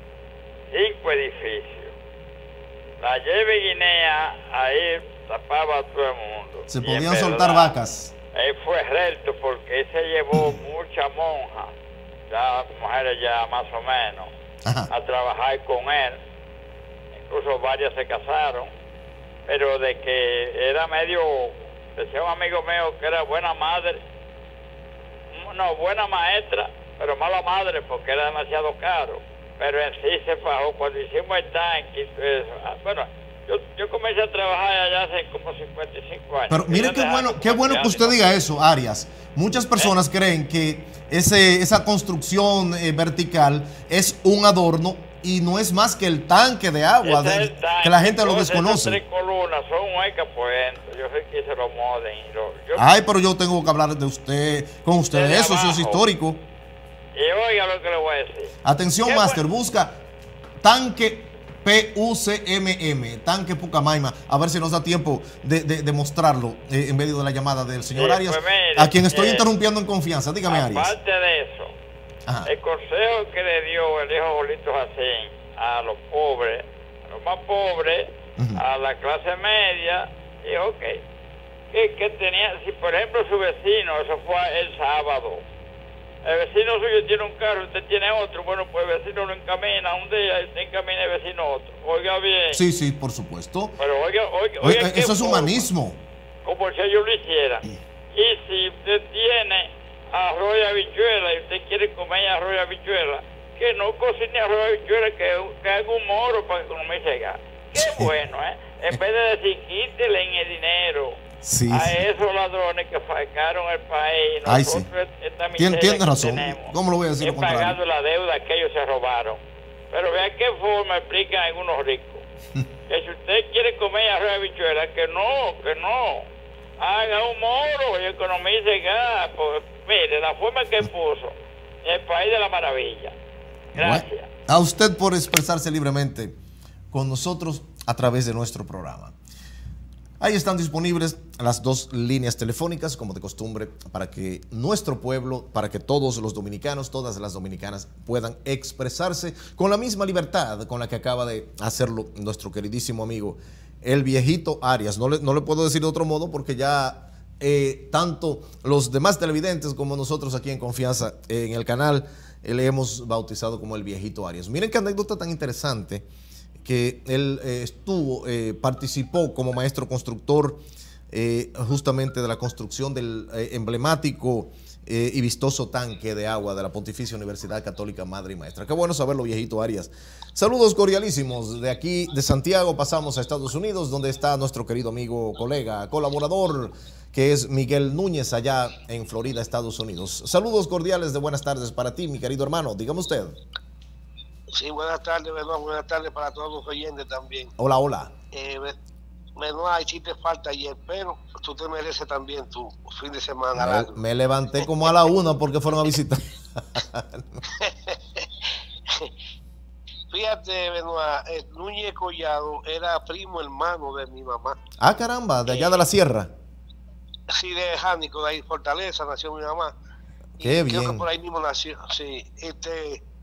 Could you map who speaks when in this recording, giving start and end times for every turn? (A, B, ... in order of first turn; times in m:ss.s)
0:00.7-0:01.9 A
0:03.0-0:07.7 A
0:06.7-0:08.1 B
0:08.3-0:11.7 A
0:12.3-0:14.3 A
0:14.6-0:14.9 B
0:14.9-0:16.2 A
0:17.2-0:18.7 A
0:19.5-0:24.0 A
0:25.3-0:38.3 A
0:36.5-0:49.0 B
0:47.0-0:52.8 A
0:52.8-0:56.4 B
0:55.1-0:56.0 A
0:57.1-0:58.5 A
0:58.6-1:00.0 B
0:59.0-0:59.4 A
1:00.6-1:10.9 B
1:08.0-1:09.5 A
1:10.5-1:11.7 A
1:12.3-1:12.5 B
1:12.4-1:21.0 A
1:18.4-1:18.6 B
1:21.7-1:25.4 A
1:26.2-1:32.6 A
1:32.5-1:33.8 B
1:33.8-1:35.6 A
1:34.6-1:36.0 B
1:36.4-1:51.2 A
1:47.8-1:48.1 B
1:51.4-1:52.0 B
1:51.7-2:02.2 A
1:54.4-1:54.9 B
1:55.6-1:57.8 B
2:02.9-2:06.3 A
2:06.8-2:13.1 A
2:13.8-2:14.3 A
2:13.8-2:16.4 B
2:16.9-2:19.1 B
2:20.2-2:46.0 B
2:46.6-3:13.4 B
3:14.5-3:17.5 C
3:17.6-3:18.1 B
3:18.3-3:18.8 C
3:19.4-3:24.0 C
3:23.5-3:27.4 B
3:27.5-3:28.2 C
3:30.1-3:34.6 C
3:34.8-3:36.3 B
3:35.5-3:35.8 C
3:37.3-3:39.7 C
3:40.4-3:41.0 B
3:40.4-3:43.0 C